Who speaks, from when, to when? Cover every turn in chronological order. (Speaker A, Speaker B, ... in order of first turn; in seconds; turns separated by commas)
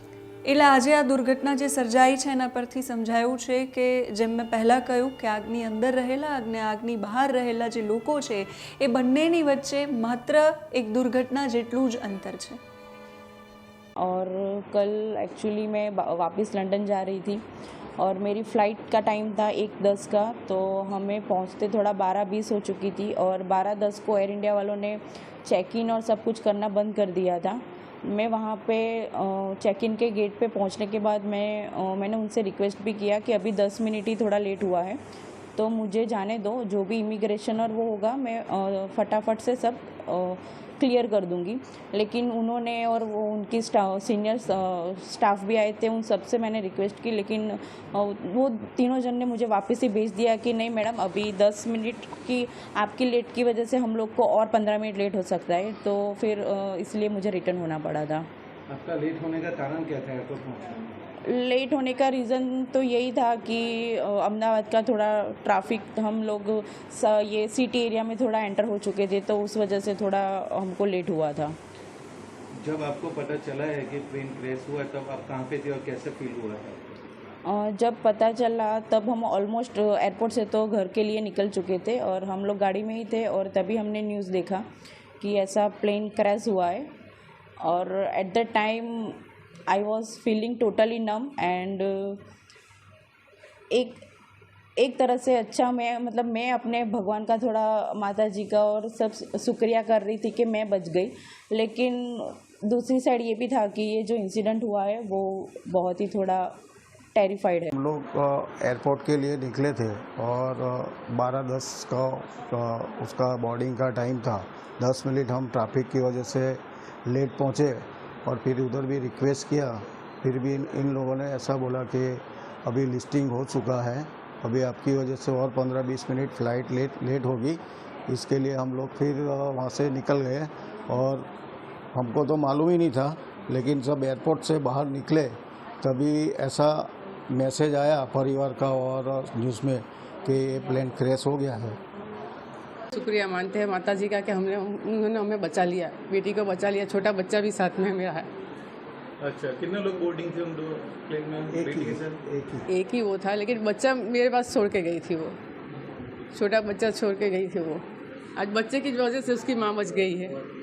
Speaker A: 0.5-12.6, Speaker B: 14.0-17.4, Speaker B: 18.0-35.0, Speaker B: 35.5-58.3, Speaker C: 58.7-60.8, Speaker B: 61.2-71.5, Speaker C: 72.6-76.8, Speaker B: 77.5-84.6, Speaker B: 85.2-86.9, Speaker B: 87.6-92.2, Speaker B: 93.7-94.0, Speaker B: 94.8-106.5, Speaker B: 107.1-107.7, Speaker D: 107.7-131.3, Speaker D: 131.9-141.8, Speaker E: 142.9-148.3, Speaker C: 149.2-152.2, Speaker D: 151.5-152.7, Speaker E: 152.7-155.4, Speaker E: 156.3-157.8, Speaker E: 158.3-160.4